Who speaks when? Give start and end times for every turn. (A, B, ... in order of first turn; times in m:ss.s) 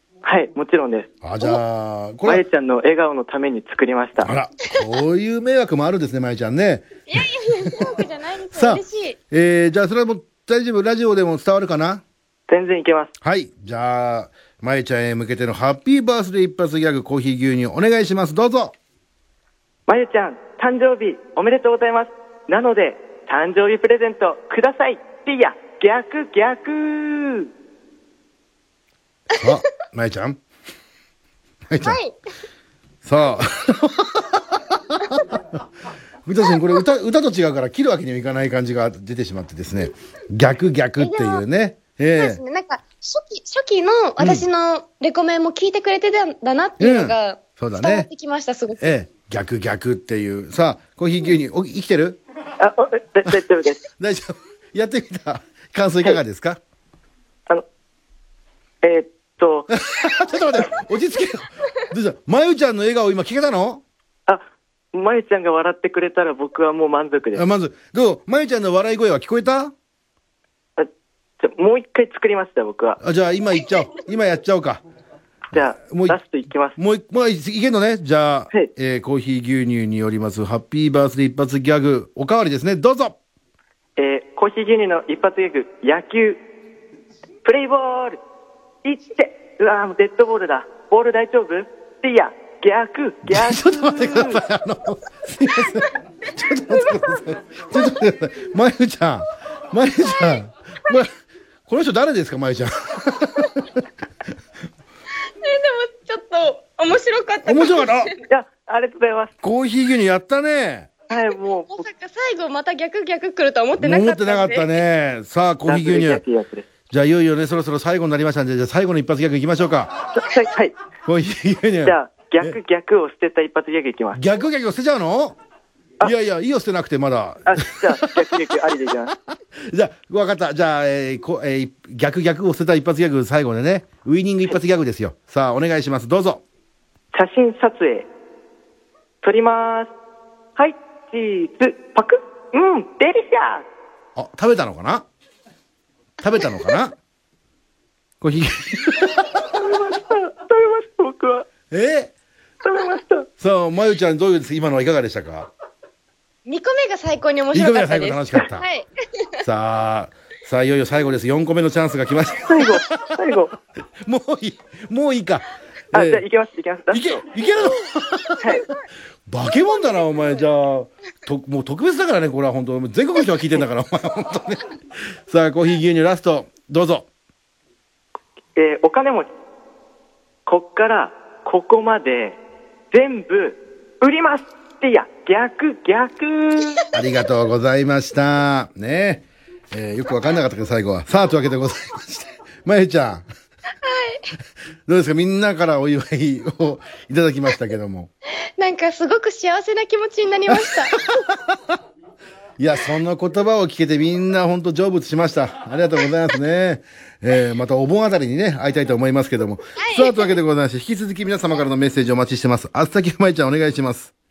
0:00.2-0:01.1 A
0:01.2-0:02.4 B
0:02.2-0:04.3 A
0:04.2-0:06.9 B
0:07.1-0:09.2 C
0:08.5-0:12.0 B
0:12.5-0:13.1 A
0:13.2-0:18.8 B
0:19.9-0:27.5 A
0:29.4-0:30.4 B
0:31.7-0:32.0 B
0:31.8-0:32.2 C
0:33.0-0:35.6 B
0:36.3-0:42.4 B
0:41.0-0:41.4 C
0:42.2-0:48.9 C
0:44.2-0:44.4 B
0:46.8-0:48.1 B
0:48.8-0:52.2 B
0:52.6-0:53.8 A
0:54.0-0:56.6 B
0:58.8-0:59.7 A
0:59.7-1:03.8 B
1:04.3-1:07.4 A
1:07.3-1:09.7 B
1:11.4-1:13.0 A
1:13.0-1:14.8 B
1:15.5-1:16.8 A
1:15.6-1:16.2 B
1:16.8-1:23.2 B
1:24.0-1:26.4 A
1:27.4-1:28.2 A
1:28.8-1:34.4 A
1:33.3-1:41.1 B
1:41.7-1:43.7 B
1:45.4-1:48.1 C
1:47.4-1:48.1 B
1:48.3-1:49.3 A
1:49.4-1:50.9 B
1:51.1-1:51.8 A
1:51.7-1:54.8 C
1:53.8-1:56.2 B
1:55.6-1:56.6 A
1:56.9-1:59.9 B
2:00.1-2:00.8 A
2:01.0-2:02.6 B
2:01.8-2:04.2 A
2:04.1-2:05.4 B
2:06.0-2:08.5 B
2:07.5-2:09.1 A
2:09.1-2:16.4 B
2:17.1-2:18.1 A
2:19.2-2:19.9 A
2:20.6-2:23.6 A
2:24.2-2:25.1 B
2:26.2-2:27.0 B
2:28.2-2:29.3 B
2:29.4-2:31.5 A
2:31.7-2:32.1 B
2:32.6-2:33.3 A
2:33.4-2:35.5 B
2:36.4-2:39.3 C
2:37.5-2:38.6 B
2:39.4-2:43.4 B
2:42.4-2:43.5 A
2:44.0-2:46.2 B
2:45.9-2:47.2 A
2:46.9-2:48.6 B
2:49.3-2:54.7 B
2:55.3-2:57.1 B
2:58.6-2:59.3 A
3:00.4-3:02.4 A
3:02.9-3:06.9 A
3:06.9-3:13.3 B
3:13.8-3:14.3 C
3:14.9-3:18.1 B
3:18.6-3:20.9 C
3:20.5-3:21.8 B
3:22.6-3:34.1 B
3:29.8-3:30.3 C